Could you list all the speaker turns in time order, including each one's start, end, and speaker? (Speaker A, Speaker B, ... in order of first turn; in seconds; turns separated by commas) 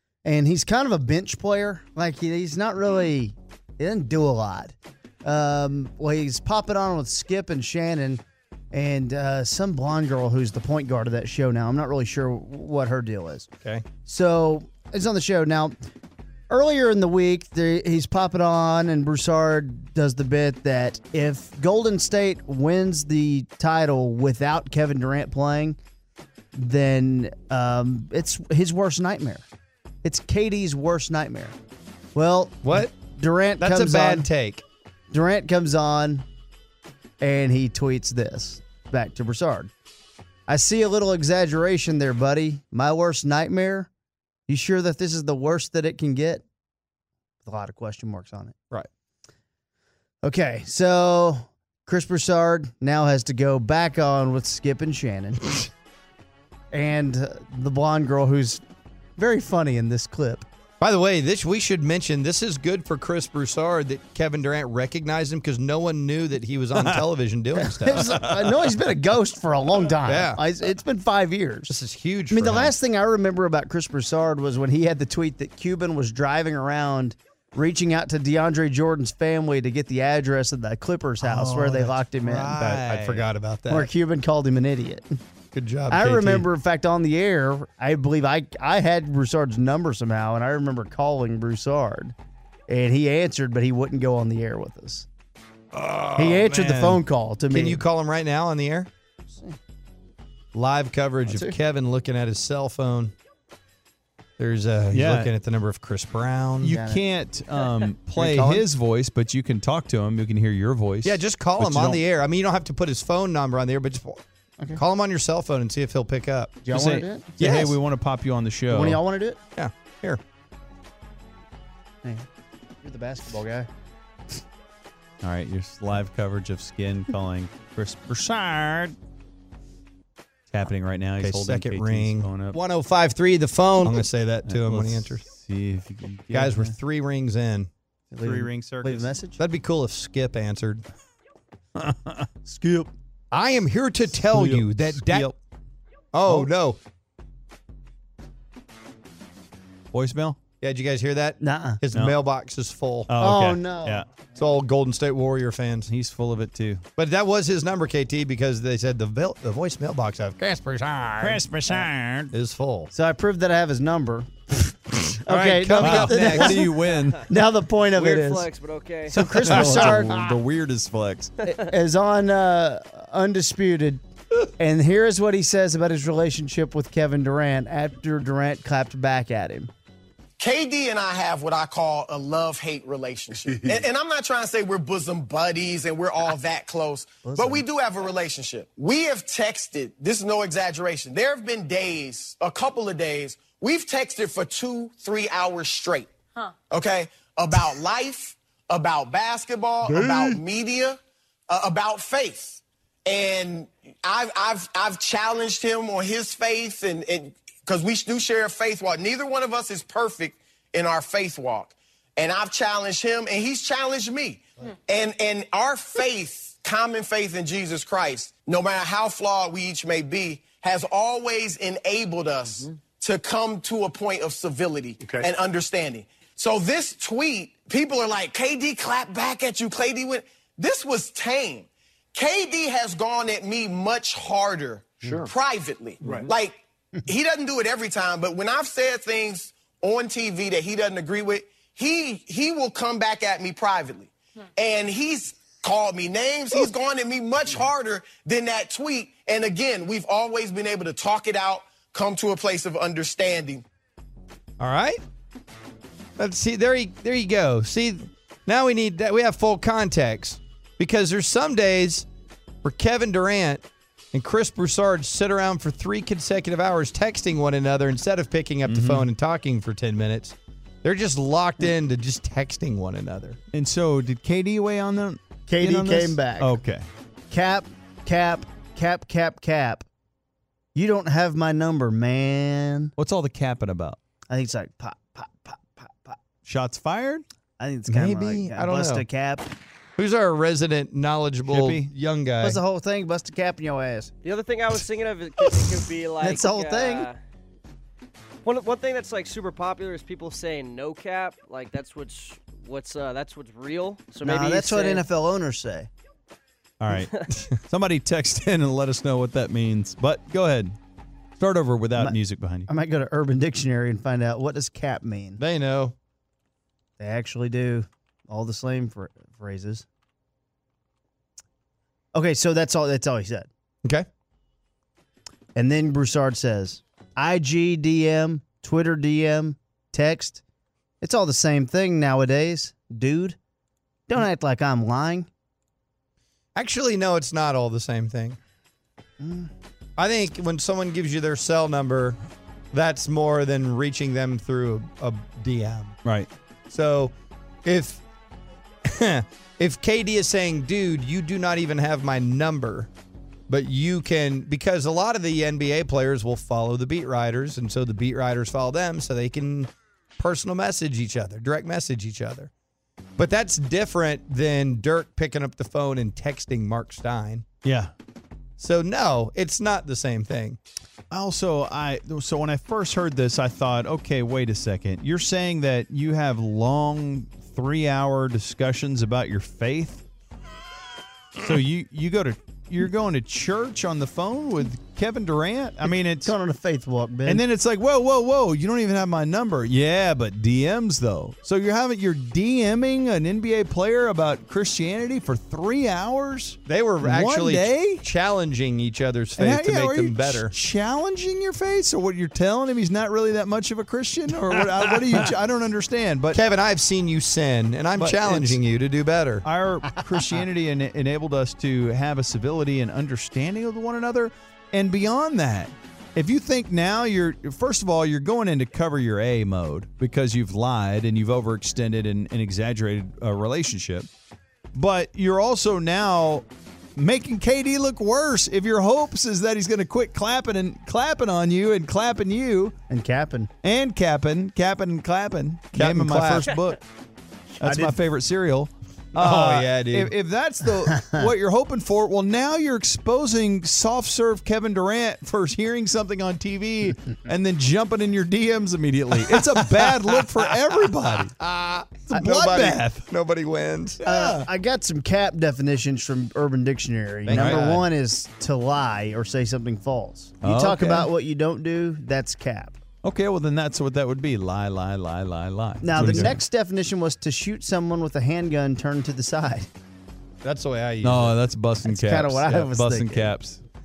Speaker A: 0.2-13.5, Speaker A: 14.0-15.8, Speaker A: 16.5-25.8, Speaker A: 26.5-29.5, Speaker A: 30.0-31.6, Speaker A: 32.1-34.3, Speaker B: 32.6-32.9, Speaker B: 33.6-34.6, Speaker A: 35.1-36.3, Speaker A: 37.2-39.7, Speaker A: 40.5-43.9, Speaker A: 44.5-46.4, Speaker A: 47.4-48.6, Speaker A: 50.2-55.7, Speaker A: 56.7-58.6, Speaker A: 59.2-60.5, Speaker B: 60.8-68.1, Speaker A: 67.5-71.8, Speaker B: 70.0-70.4, Speaker B: 71.7-72.8, Speaker A: 72.3-82.8, Speaker C: 81.2-83.3, Speaker B: 82.6-83.9, Speaker A: 83.7-85.2, Speaker B: 85.5-86.5, Speaker A: 85.9-92.2, Speaker A: 92.7-95.1, Speaker B: 95.7-98.9, Speaker A: 96.2-97.8, Speaker A: 99.3-99.6, Speaker B: 100.5-103.1, Speaker A: 101.3-101.6, Speaker B: 104.4-106.7, Speaker C: 104.9-105.3, Speaker C: 106.6-112.0, Speaker A: 106.6-107.0, Speaker A: 108.2-108.7, Speaker B: 111.0-114.2, Speaker B: 114.8-116.6, Speaker A: 116.7-117.3, Speaker C: 116.7-119.0, Speaker B: 117.4-117.8, Speaker A: 118.7-119.4, Speaker B: 119.6-120.2, Speaker A: 122.8-123.7, Speaker C: 125.2-129.0, Speaker C: 130.5-132.6, Speaker B: 131.2-135.2, Speaker C: 134.4-136.8, Speaker B: 136.3-137.7, Speaker A: 138.1-139.4, Speaker B: 138.3-138.6, Speaker C: 138.7-139.1, Speaker B: 139.4-140.8, Speaker C: 141.8-142.1, Speaker A: 142.4-142.9, Speaker B: 143.3-145.4, Speaker C: 144.3-145.3, Speaker B: 146.1-146.8, Speaker C: 149.9-150.4, Speaker B: 150.6-153.1, Speaker A: 151.4-151.8, Speaker C: 151.9-152.2, Speaker C: 153.1-154.1, Speaker A: 153.2-154.1, Speaker B: 154.3-155.9, Speaker C: 155.9-156.8, Speaker B: 157.0-161.4, Speaker C: 161.2-162.3, Speaker B: 162.3-162.9, Speaker A: 162.9-166.7, Speaker B: 165.3-166.7, Speaker C: 165.8-167.3, Speaker A: 167.3-168.5, Speaker D: 167.9-169.7, Speaker A: 169.1-170.2, Speaker C: 169.4-171.3, Speaker A: 171.4-174.0, Speaker A: 174.6-179.7, Speaker E: 180.4-196.1, Speaker A: 187.2-187.7, Speaker E: 196.7-253.6, Speaker B: 254.6-255.0, Speaker B: 256.2-262.1, Speaker B: 262.6-273.4, Speaker C: 268.6-269.1, Speaker C: 273.5-276.9, Speaker A: 275.5-276.6, Speaker A: 277.3-279.9, Speaker A: 280.7-282.9, Speaker C: 283.0-284.0, Speaker A: 284.3-286.2, Speaker C: 286.4-287.2, Speaker A: 287.6-289.5, Speaker B: 287.9-289.1, Speaker B: 290.0-292.6, Speaker C: 291.5-291.9, Speaker A: 292.4-294.1, Speaker D: 294.2-297.2, Speaker A: 296.2-297.1, Speaker D: 298.4-305.0, Speaker A: 304.2-305.9, Speaker C: 306.8-310.8, Speaker C: 311.4-312.7, Speaker A: 311.9-315.4, Speaker B: 315.4-315.9, Speaker A: 317.0-319.9, Speaker A: 322.1-323.5, Speaker A: 325.6-330.4, Speaker A: 331.0-333.4, Speaker A: 334.1-335.3, Speaker B: 336.6-338.4, Speaker A: 339.2-339.5, Speaker B: 340.0-342.2, Speaker B: 342.7-346.0, Speaker C: 346.0-346.3, Speaker B: 346.7-347.1, Speaker B: 347.6-348.0, Speaker B: 348.9-352.9, Speaker B: 353.5-362.5, Speaker B: 363.2-367.4, Speaker C: 367.6-367.9, Speaker B: 368.6-370.6, Speaker C: 371.1-380.0, Speaker C: 381.4-386.3, Speaker A: 385.9-387.4, Speaker C: 387.2-398.0, Speaker B: 396.7-400.5, Speaker C: 399.4-406.4, Speaker B: 406.3-409.4, Speaker C: 407.9-408.6, Speaker C: 409.4-424.1, Speaker C: 424.7-432.8, Speaker A: 432.9-433.5, Speaker C: 433.6-436.8, Speaker B: 435.7-436.5, Speaker C: 437.6-451.3, Speaker A: 437.6-438.0, Speaker B: 439.2-440.1, Speaker B: 451.3-454.0, Speaker C: 452.1-453.1, Speaker C: 454.0-454.5, Speaker A: 454.1-462.8, Speaker B: 457.2-457.9, Speaker C: 457.3-457.6, Speaker C: 460.4-461.1, Speaker C: 463.0-466.4, Speaker A: 465.8-469.7, Speaker B: 470.4-471.4, Speaker C: 471.0-473.6, Speaker A: 471.8-473.4